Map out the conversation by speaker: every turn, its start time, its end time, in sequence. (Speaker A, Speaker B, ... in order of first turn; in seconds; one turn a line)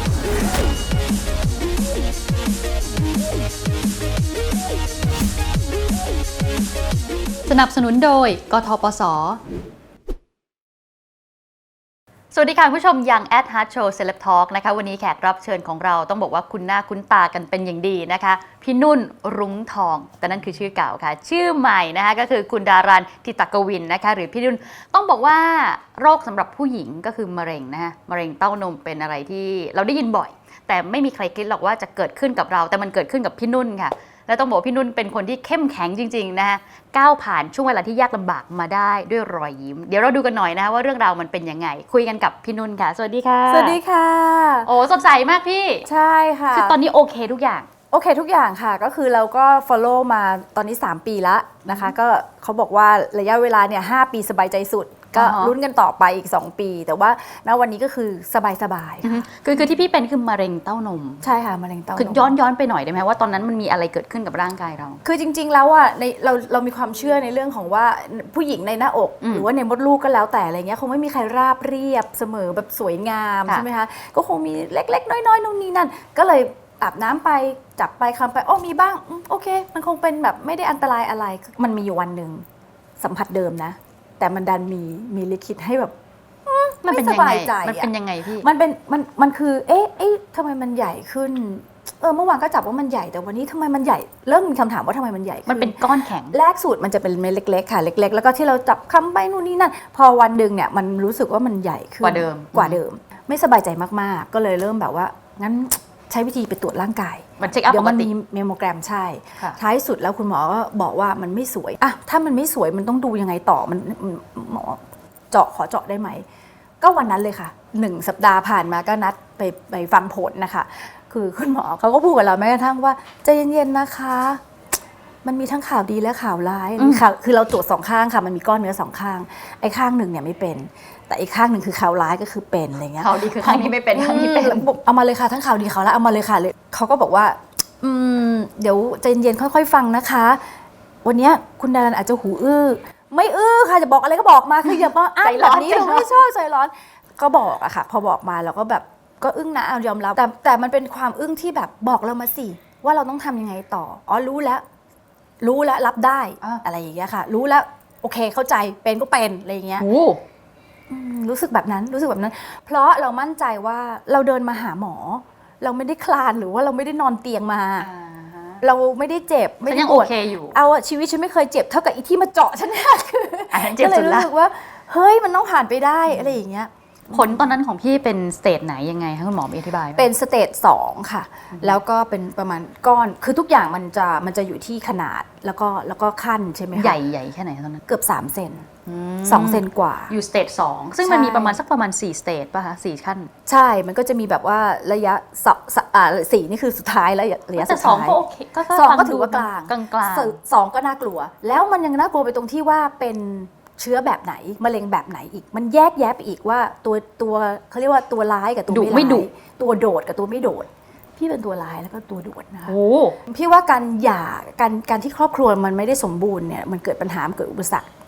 Speaker A: 7.5-9.4
Speaker A: 12.3-43.8
Speaker B: 43.5-44.7
Speaker A: 44.6-45.9
Speaker B: 45.9-46.8
Speaker A: 46.5-47.7
Speaker B: 47.9-59.3
Speaker A: 51.7-51.9
Speaker A: 55.1-55.5
Speaker A: 59.0-61.2
Speaker B: 61.2-62.3
Speaker A: 61.9-65.0
Speaker B: 65.0-82.4
Speaker A: 69.2-69.5
Speaker B: 83.0-85.9
Speaker B: 86.5-116.2
Speaker A: 86.8-88.5
Speaker A: 95.5-96.4
Speaker A: 102.0-102.8
Speaker A: 107.4-108.1
Speaker B: 116.8-124.4
Speaker B: 125.2-140.4
Speaker A: 126.8-127.0
Speaker A: 133.0-134.7
Speaker B: 141.0-154.6
Speaker A: 144.7-146.2
Speaker B: 155.4-159.9
Speaker A: 159.8-160.2
Speaker B: 160.9-167.9
Speaker A: 167.8-168.6
Speaker B: 168.6-177.5
Speaker A: 169.7-170.6
Speaker A: 173.5-174.3
Speaker A: 176.1-176.3
Speaker A: 177.1-180.1
Speaker B: 179.9-187.0
Speaker A: 186.7-187.8
Speaker B: 187.9-188.7
Speaker A: 188.8-193.3
Speaker B: 189.2-190.1
Speaker B: 191.0-191.6
Speaker B: 193.4-212.8
Speaker A: 197.6-200.3
Speaker A: 208.7-209.3
Speaker A: 212.7-213.2
Speaker B: 213.3-217.9